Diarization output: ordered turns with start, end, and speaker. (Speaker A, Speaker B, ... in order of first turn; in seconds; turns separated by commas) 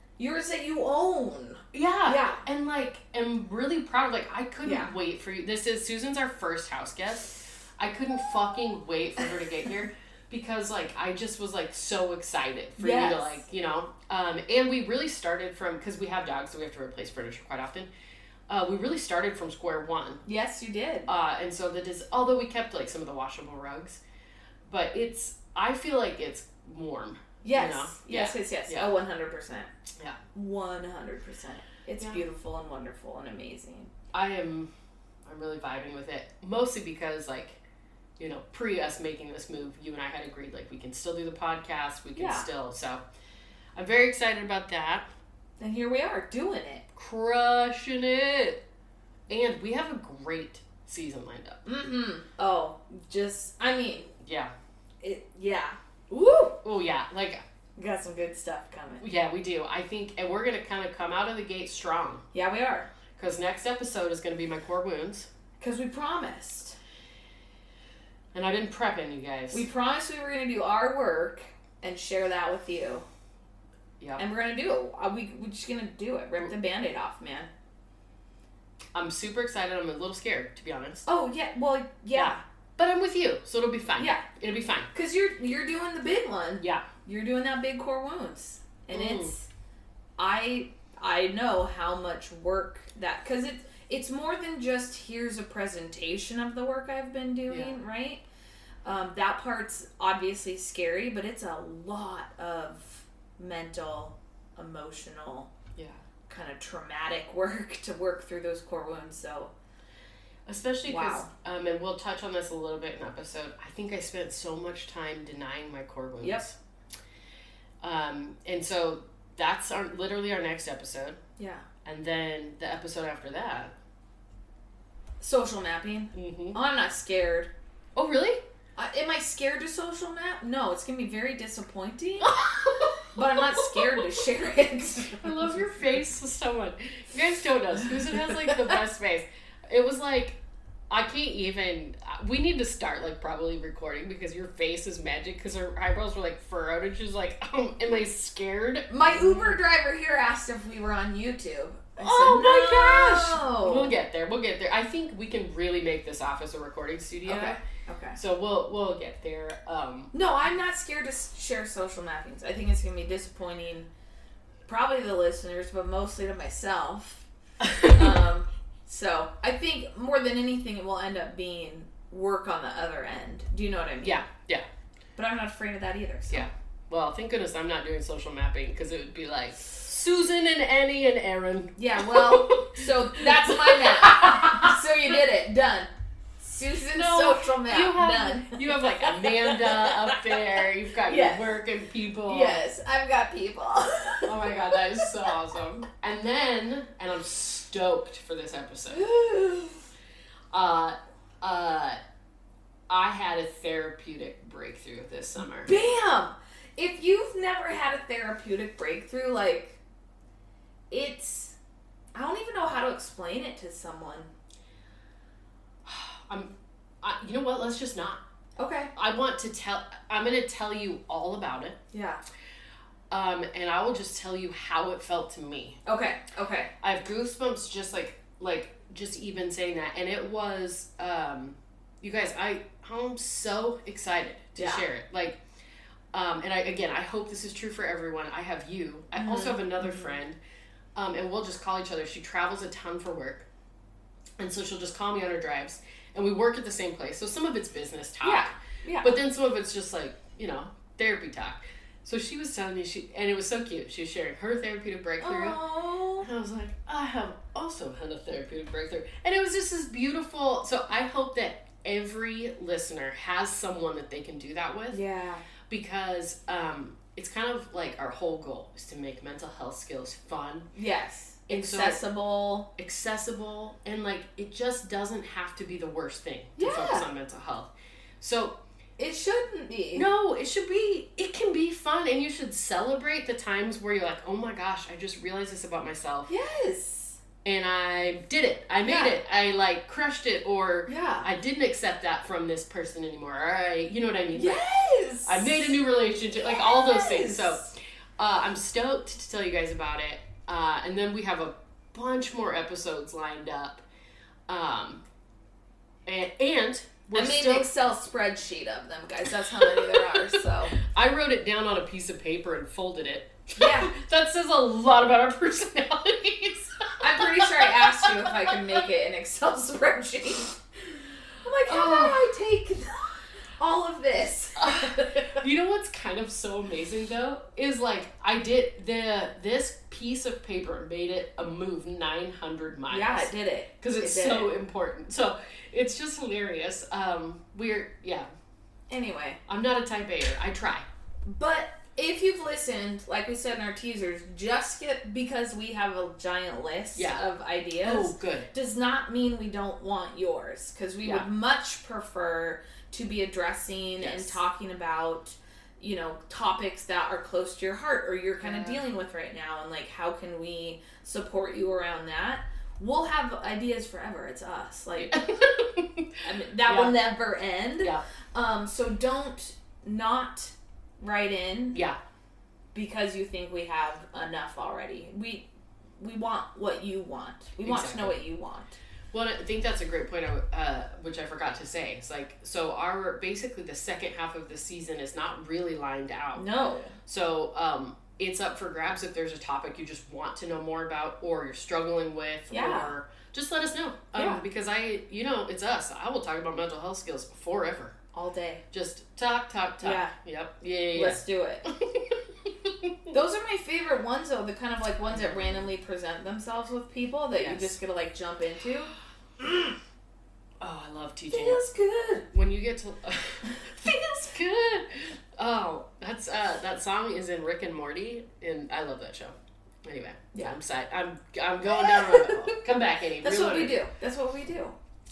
Speaker A: 0.2-2.4, Speaker B: 1.7-17.9, Speaker A: 4.6-4.9, Speaker A: 12.8-13.4, Speaker B: 18.5-20.2, Speaker A: 20.2-21.1, Speaker B: 21.1-24.0, Speaker B: 24.6-28.9, Speaker A: 27.4-29.7, Speaker A: 30.3-33.9, Speaker B: 34.1-34.7, Speaker B: 35.2-37.6, Speaker B: 38.2-43.0, Speaker A: 42.1-42.5, Speaker B: 43.7-45.0, Speaker A: 45.6-46.9, Speaker B: 46.9-48.6, Speaker B: 49.3-51.6, Speaker A: 51.6-54.1, Speaker B: 54.2-54.5, Speaker A: 55.0-56.6, Speaker B: 56.6-57.4, Speaker A: 57.8-59.0, Speaker B: 59.0-62.2, Speaker A: 62.3-62.9, Speaker B: 63.1-65.3, Speaker A: 65.6-66.8, Speaker B: 68.3-69.7, Speaker A: 69.5-73.0, Speaker A: 74.2-77.5, Speaker B: 78.9-81.0, Speaker A: 81.0-82.4, Speaker B: 82.1-84.9, Speaker A: 84.0-84.2, Speaker A: 84.9-89.5, Speaker B: 86.6-86.8, Speaker B: 88.9-89.3, Speaker A: 90.2-98.2, Speaker B: 97.5-97.8, Speaker A: 98.8-105.5, Speaker B: 105.7-106.0, Speaker A: 106.3-109.5, Speaker B: 110.5-116.5, Speaker A: 110.8-111.3, Speaker B: 117.8-121.2, Speaker A: 121.4-121.7, Speaker B: 121.8-123.7, Speaker A: 125.2-127.5, Speaker B: 126.1-126.6, Speaker B: 127.9-128.4, Speaker A: 128.8-132.4, Speaker B: 132.2-134.0, Speaker A: 133.1-135.5, Speaker B: 135.1-140.4, Speaker B: 140.9-149.6, Speaker A: 148.9-153.9, Speaker B: 152.0-157.6, Speaker A: 157.2-158.2, Speaker B: 158.2-160.1, Speaker A: 160.1-163.9, Speaker A: 164.7-167.2, Speaker B: 167.6-168.2, Speaker A: 167.8-174.2, Speaker B: 174.0-174.7, Speaker A: 175.2-176.5, Speaker B: 176.3-184.8, Speaker A: 181.8-191.6, Speaker B: 186.9-192.6, Speaker A: 192.2-195.3, Speaker B: 194.2-199.1, Speaker A: 198.9-199.8, Speaker B: 200.5-202.0, Speaker B: 202.9-205.7, Speaker A: 205.6-209.8, Speaker A: 210.9-211.6, Speaker A: 212.1-214.3, Speaker B: 215.8-218.2, Speaker A: 218.6-218.9, Speaker B: 218.9-221.8, Speaker A: 221.9-222.2, Speaker B: 223.1-225.8, Speaker A: 225.8-226.7, Speaker B: 226.8-235.4, Speaker A: 234.6-234.8, Speaker B: 236.1-240.4, Speaker A: 239.1-240.1, Speaker B: 240.9-243.5, Speaker B: 244.4-255.6, Speaker A: 248.2-249.2, Speaker A: 255.2-256.3, Speaker B: 256.2-265.0, Speaker A: 264.9-265.4, Speaker B: 265.7-270.7, Speaker A: 270.7-272.7, Speaker B: 271.5-272.0, Speaker B: 272.8-278.6, Speaker A: 276.6-277.1, Speaker A: 279.0-280.1, Speaker B: 279.9-286.3, Speaker A: 286.3-287.2, Speaker B: 287.4-294.6, Speaker A: 288.8-289.1, Speaker A: 290.9-291.3, Speaker A: 294.3-295.6, Speaker B: 295.2-303.8, Speaker A: 296.4-297.6, Speaker B: 304.5-305.0, Speaker B: 306.1-307.7, Speaker A: 307.1-310.8, Speaker B: 309.5-318.6, Speaker A: 313.6-313.9, Speaker A: 317.0-320.6, Speaker A: 321.4-325.4, Speaker B: 321.6-322.3, Speaker B: 324.6-338.3, Speaker A: 332.9-334.5, Speaker A: 338.9-339.4, Speaker B: 339.5-340.9, Speaker A: 341.2-365.2, Speaker B: 346.9-348.5, Speaker B: 354.0-354.4, Speaker B: 358.4-358.9, Speaker B: 365.1-367.1, Speaker A: 366.2-371.8, Speaker B: 371.7-372.0, Speaker A: 372.7-375.5, Speaker A: 376.0-378.8, Speaker B: 377.6-378.2, Speaker B: 379.1-386.4, Speaker A: 386.3-386.9, Speaker B: 387.1-398.0, Speaker A: 392.5-392.9, Speaker A: 394.1-394.4, Speaker A: 398.1-398.6, Speaker B: 398.7-403.1, Speaker A: 399.8-400.1, Speaker A: 400.9-401.7, Speaker A: 403.1-408.9, Speaker B: 405.1-405.6, Speaker B: 407.3-407.7, Speaker B: 409.4-409.7, Speaker B: 410.6-411.6, Speaker A: 411.3-412.3, Speaker B: 412.3-423.8, Speaker A: 421.7-422.7, Speaker A: 423.2-424.8